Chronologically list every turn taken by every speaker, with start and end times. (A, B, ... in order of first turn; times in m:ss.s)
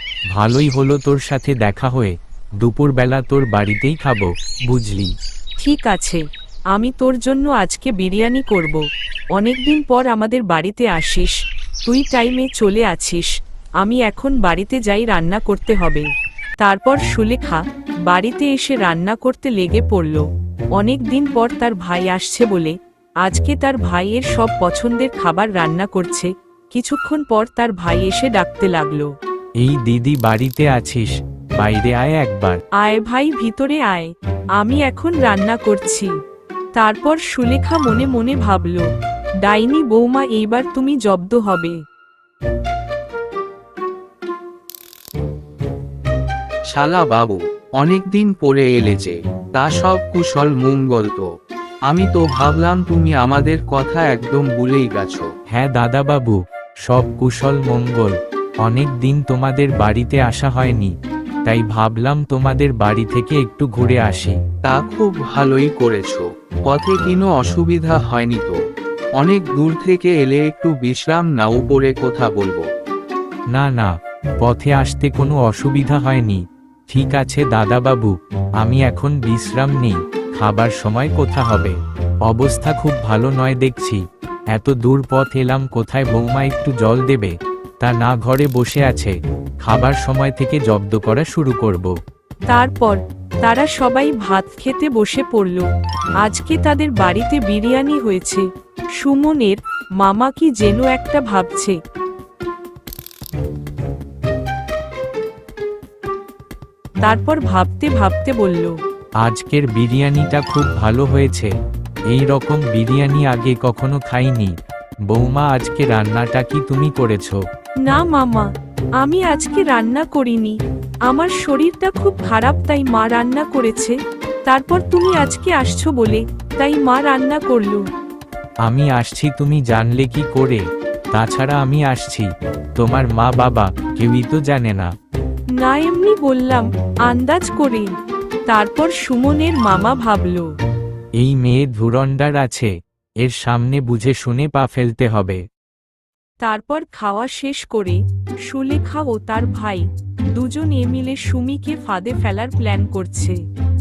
0:00.3-0:05.1 A
0:05.6-0:06.2 B
0:06.7-0:08.8 B
0:09.4-0:16.1 B
0:16.6-0:20.2 B
0:20.8-0:29.1 B
0:29.6-0:32.6 A
0:32.8-0:36.1 B
0:36.8-0:38.9 B
0:39.4-0:41.8 B
0:46.7-0:51.3 C
0:51.9-0:55.3 C
0:55.5-1:00.9 A
1:01.5-1:04.4 A
1:04.6-1:08.6 C
1:09.2-1:12.7 C
1:13.5-1:32.0 A
1:32.5-1:35.7 B
1:36.2-1:41.8 B
1:47.0-1:48.8 B
1:49.2-1:51.5 A
1:52.1-1:54.6 A
1:55.1-1:57.4 A
1:57.8-2:07.8 B
2:08.6-2:14.9 A
2:15.6-2:17.9 B
2:18.5-2:20.5 B
2:21.2-2:25.4 A
2:26.4-2:33.4 B